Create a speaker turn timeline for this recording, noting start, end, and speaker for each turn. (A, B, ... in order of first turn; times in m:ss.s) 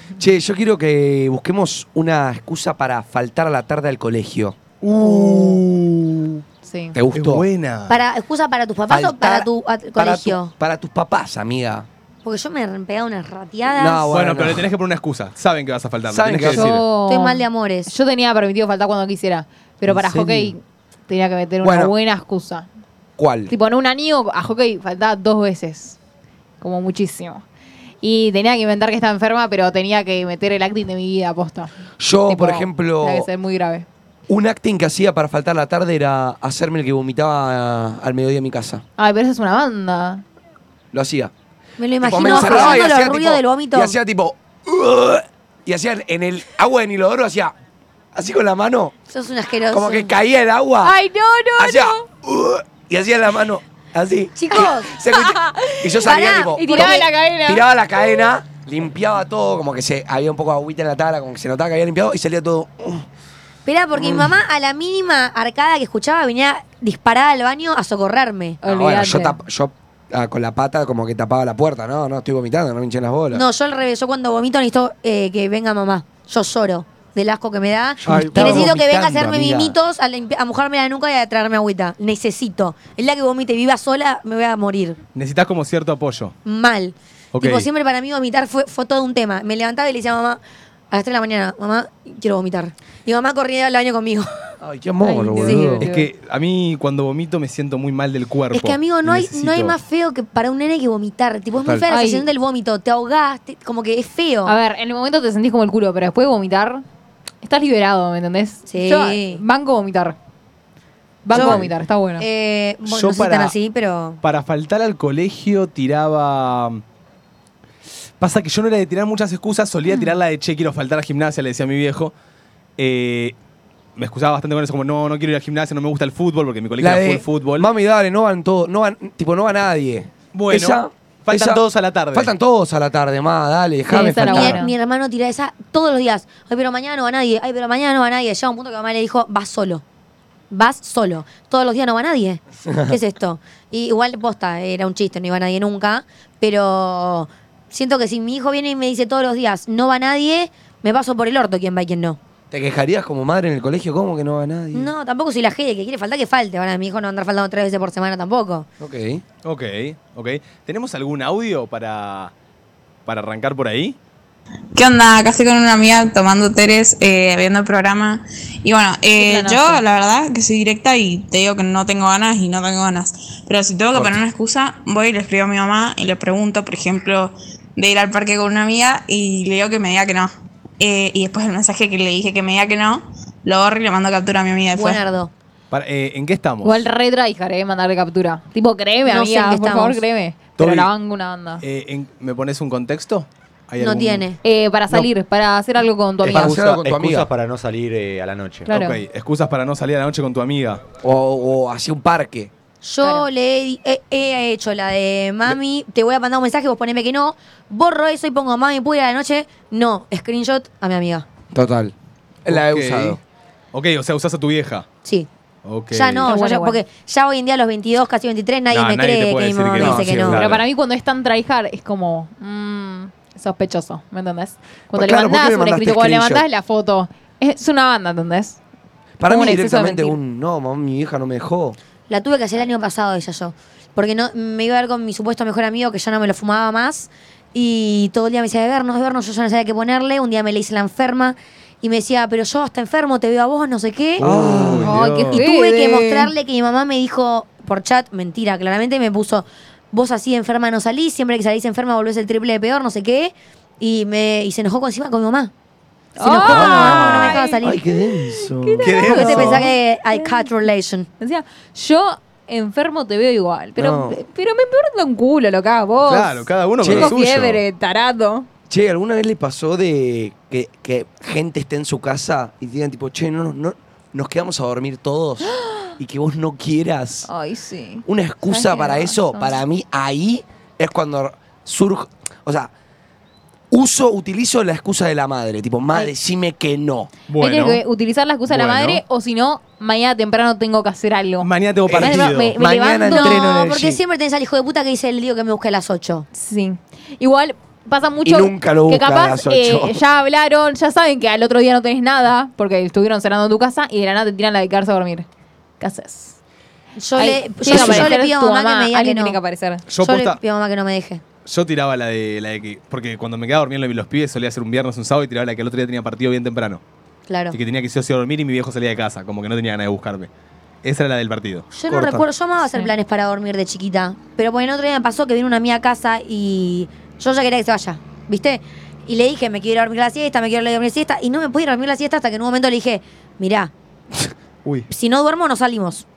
0:00.2-0:05.6 A
0:04.8-0:06.4 B
0:05.0-0:05.6 C
0:06.6-0:07.0 C
0:06.9-0:07.5 A
0:07.1-0:08.0 B
0:07.9-0:10.5 D
0:08.9-0:11.9 A
0:12.2-0:14.1 D
0:13.7-0:14.7 A
0:14.1-0:16.8 B
0:16.1-0:16.7 A
0:16.5-0:22.7 C
0:17.1-0:17.9 D
0:19.9-0:20.5 A
0:21.6-0:21.9 A
0:23.2-0:23.5 A
0:23.5-0:26.0 C
0:26.6-0:27.4 C
0:28.0-0:31.7 C
0:32.0-0:33.3 A
0:32.3-0:33.9 C
0:34.3-0:38.8 A
0:39.0-0:40.2 C
0:40.9-0:41.3 A
0:41.8-0:44.0 D
0:42.0-0:47.5 A
0:42.2-0:42.8 C
0:48.2-0:48.9 A
0:49.1-0:50.1 D
0:49.7-0:51.0 A
0:50.8-0:52.0 C
0:51.6-1:03.1 A
0:54.4-0:54.9 D
0:55.0-0:58.3 C
0:56.0-0:57.1 D
1:03.7-1:08.6 D
1:03.9-1:04.4 A
1:08.6-1:09.4 C
1:08.6-1:13.4 A
1:13.3-1:25.0 D
1:18.0-1:19.8 A
1:18.2-1:18.6 B
1:25.2-1:26.4 B
1:26.5-1:30.4 D
1:27.3-1:27.7 B
1:30.9-1:34.3 D
1:34.6-1:35.9 A
1:35.0-1:36.0 C
1:35.4-1:35.8 D
1:35.8-1:39.8 B
1:38.5-1:44.6 D
1:41.9-1:42.3 C
1:44.4-1:46.8 C
1:47.4-1:50.2 C
1:48.7-1:49.4 D
1:51.2-1:52.3 C
1:51.3-1:51.6 D
1:52.2-1:54.2 D
1:52.9-1:53.5 B
1:54.2-1:56.8 B
1:58.2-2:02.1 B
2:02.8-2:03.4 B
2:04.0-2:07.7 B
2:06.8-2:11.6 A
2:10.3-2:12.3 B
2:12.1-2:14.6 A
2:13.9-2:14.7 C
2:14.2-2:19.8 D
2:20.5-2:32.2 D
2:22.7-2:23.0 A
2:32.5-2:34.9 A
2:34.7-2:38.7 D
2:38.8-2:39.2 A
2:39.4-2:42.3 B
2:43.1-2:44.0 B
2:44.8-3:05.1 E
2:49.2-2:49.8 C
2:53.9-2:54.2 A
3:04.8-3:05.3 D
3:05.7-3:06.9 B
3:06.6-3:11.6 C
3:09.1-3:10.0 D
3:10.6-3:10.9 B
3:11.6-3:14.3 B
3:13.8-3:14.4 D
3:14.4-3:16.6 C
3:16.2-3:17.3 A
3:16.2-3:18.7 F
3:18.7-3:19.0 C
3:18.7-3:20.8 B
3:21.0-3:22.5 A
3:22.8-3:31.3 D
3:23.0-3:23.3 C
3:31.5-3:31.9 A
3:32.4-3:33.2 A
3:32.5-3:33.2 B
3:33.7-3:34.9 B
3:35.6-3:36.3 B
3:35.9-3:40.4 D
3:36.3-3:36.8 C
3:38.7-3:40.6 B
3:39.7-3:40.5 A
3:40.4-3:48.6 C
3:44.9-3:46.4 A
3:49.2-3:51.8 A
3:49.3-3:50.2 C
3:52.1-4:04.3 D
4:04.2-4:05.4 B
4:04.2-4:05.2 A
4:04.7-4:06.3 C
4:05.3-4:15.5 D
4:16.2-4:17.6 C
4:16.2-4:17.8 D
4:16.3-4:19.4 A
4:18.4-4:20.5 C
4:18.8-4:19.7 B
4:19.1-4:21.1 D
4:21.2-4:28.5 C
4:23.8-4:24.2 A
4:26.0-4:27.6 B
4:26.8-4:27.1 A
4:28.7-4:37.3 A
4:35.5-4:35.9 C
4:37.3-4:39.6 C
4:38.1-4:42.7 A
4:43.7-4:47.1 A
4:47.3-4:47.8 B
4:47.4-4:53.5 C
4:48.5-4:49.0 B
4:51.4-4:52.5 B
4:51.9-4:54.0 A
4:53.0-4:56.3 D
4:56.3-5:05.3 C
4:58.2-5:00.0 A
5:05.8-5:06.4 C
5:07.0-5:09.4 D
5:07.2-5:09.8 C
5:07.7-5:08.1 A
5:07.8-5:08.0 B
5:09.9-5:10.4 B
5:10.0-5:11.2 D
5:11.5-5:16.8 B
5:17.3-5:17.6 D
5:17.5-5:20.3 B
5:20.8-5:21.7 B
5:21.7-5:33.7 D
5:21.9-5:22.3 A
5:34.9-5:36.0 D